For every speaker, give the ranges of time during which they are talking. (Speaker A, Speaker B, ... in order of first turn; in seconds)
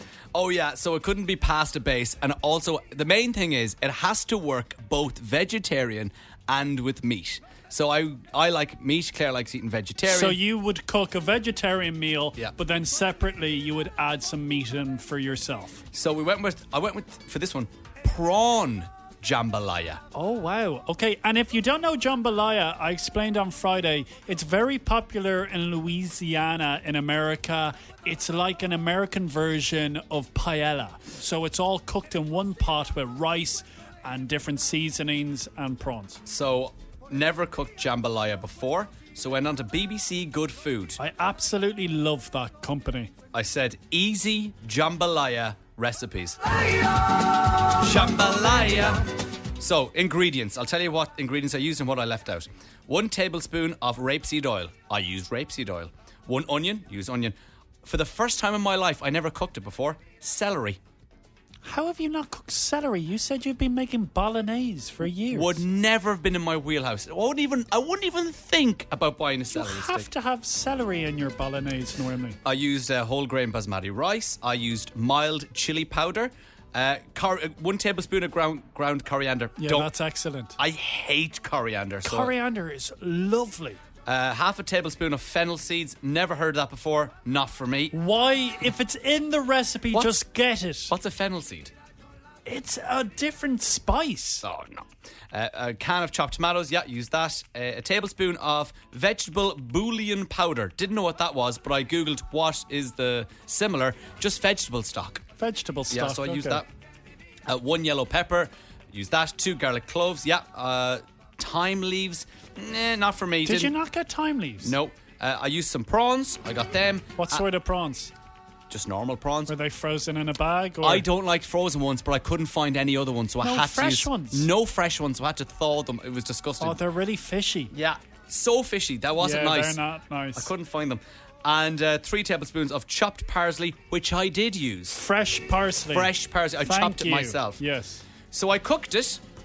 Speaker A: 0.3-10.4, 15.9-20.0, 36.2-41.0, 43.3-46.4, 47.7-60.8, 65.3-70.1, 72.4-79.9, 80.6-82.3, 84.1-88.0, 89.9-90.3, 90.9-91.7, 94.4-105.2, 105.9-106.7, 107.5-113.7, 114.6-117.5, 118.7-119.5, 120.8-126.8, 127.7-129.8, 130.3-135.0, 135.9-137.6, 138.3-139.2
Speaker B: 10.1-15.8, 20.1-36.2, 41.0-43.1, 61.6-65.6, 69.5-72.4, 79.6-80.6, 82.0-83.8, 87.9-90.9, 92.5-94.5, 105.4-106.6, 113.5-114.8, 117.2-118.1, 119.5-121.1, 123.4-124.5, 126.6-127.7, 129.2-130.5, 134.9-138.0